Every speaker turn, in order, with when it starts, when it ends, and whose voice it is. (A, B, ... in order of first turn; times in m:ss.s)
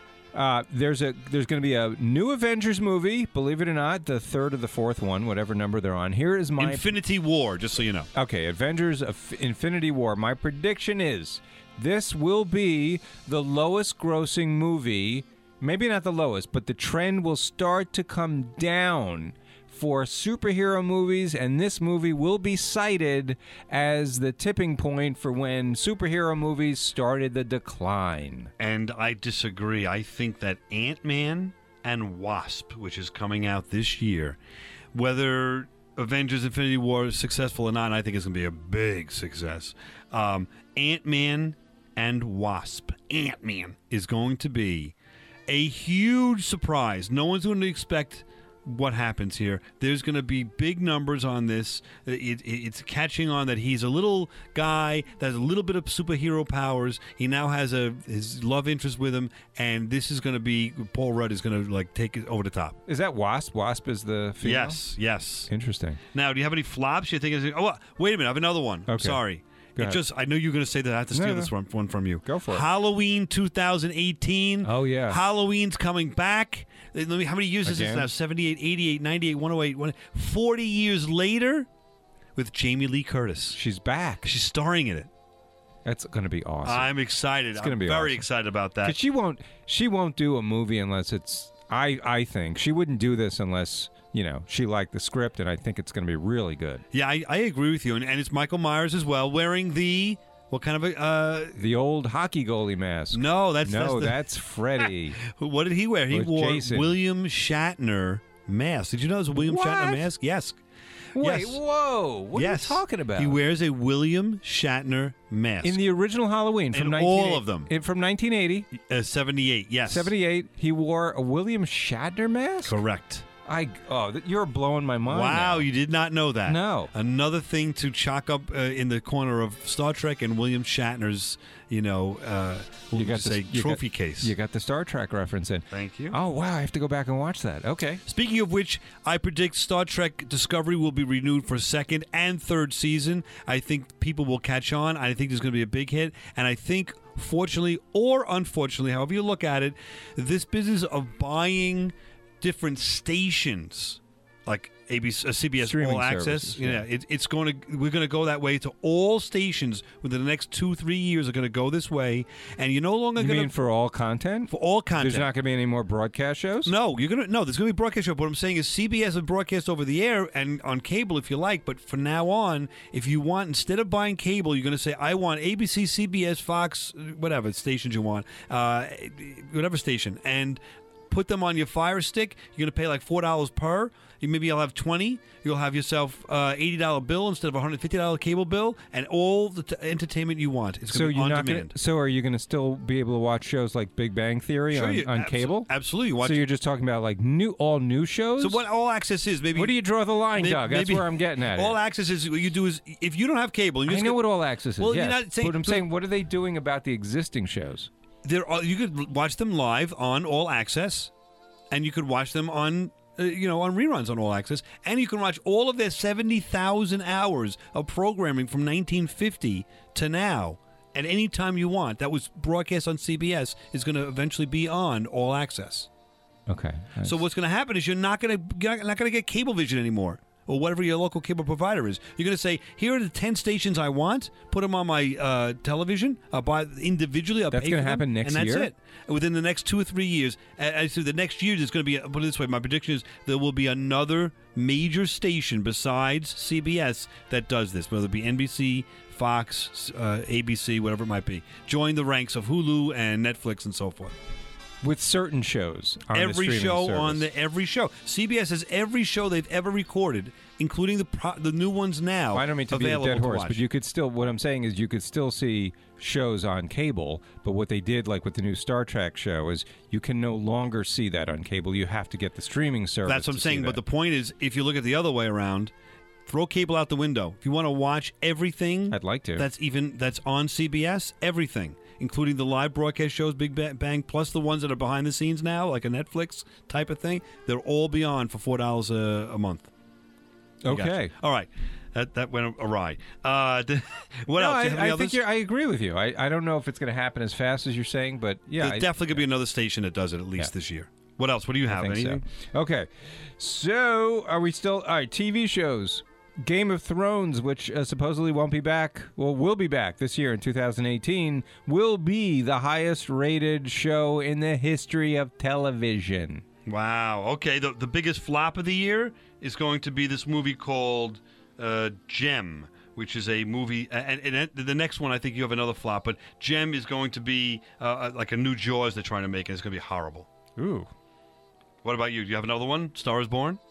0:00.3-0:06.9 A
0:06.6-0:08.1 B
0:08.2-0:28.5 A
0:28.6-0:34.4 B
0:34.9-0:44.9 B
0:45.5-1:02.8 B
1:02.9-1:04.8 A
1:04.4-1:05.5 B
1:05.5-1:06.0 A
1:06.1-1:21.7 B
1:08.9-1:09.2 A
1:11.1-1:11.5 A
1:12.2-1:12.6 A
1:14.6-1:15.2 A
1:17.6-1:18.1 A
1:22.4-1:23.6 B
1:23.5-1:24.3 A
1:24.2-1:25.1 B
1:25.8-1:26.9 A
1:26.6-1:29.0 B
1:27.6-1:28.2 A
1:28.8-1:36.8 A
1:36.9-1:41.6 B
1:41.6-1:45.2 A
1:43.1-1:44.2 B
1:45.2-1:50.6 B
1:46.1-1:47.0 A
1:49.4-1:50.0 A
1:51.2-1:53.4 A
1:51.2-1:51.6 B
1:52.4-1:55.8 B
1:55.6-1:58.7 A
1:56.7-1:57.7 B
1:58.8-2:00.1 B
1:59.9-2:02.8 A
2:02.6-2:03.2 B
2:03.5-2:05.7 A
2:05.1-2:14.3 B
2:06.5-2:06.9 A
2:12.9-2:18.0 A
2:15.7-2:16.2 B
2:18.1-2:43.5 B
2:35.6-2:36.8 A
2:43.2-2:46.7 A
2:44.5-2:45.3 B
2:46.7-3:11.7 B
3:10.9-3:15.7 A
3:14.7-3:16.4 B
3:16.2-3:18.6 A
3:18.4-3:19.8 B
3:19.6-3:21.8 A
3:20.3-3:24.2 B
3:23.9-3:27.9 A
3:24.8-3:25.9 B
3:28.2-3:31.1 B
3:31.7-3:45.9 B
3:46.5-3:47.2 A
3:47.0-4:14.1 B
3:57.5-3:58.7 A
4:14.8-4:17.3 A
4:16.1-4:23.6 B
4:22.3-4:33.8 A
4:33.1-4:35.7 B
4:36.3-4:49.7 B
4:38.9-4:39.5 A
4:50.6-4:51.1 A
4:50.7-4:55.2 B
4:54.4-4:59.2 A
4:58.6-5:02.2 B
5:01.7-5:16.4 A
5:16.7-5:30.3 B
5:30.6-5:30.9 A
5:31.8-5:33.6 B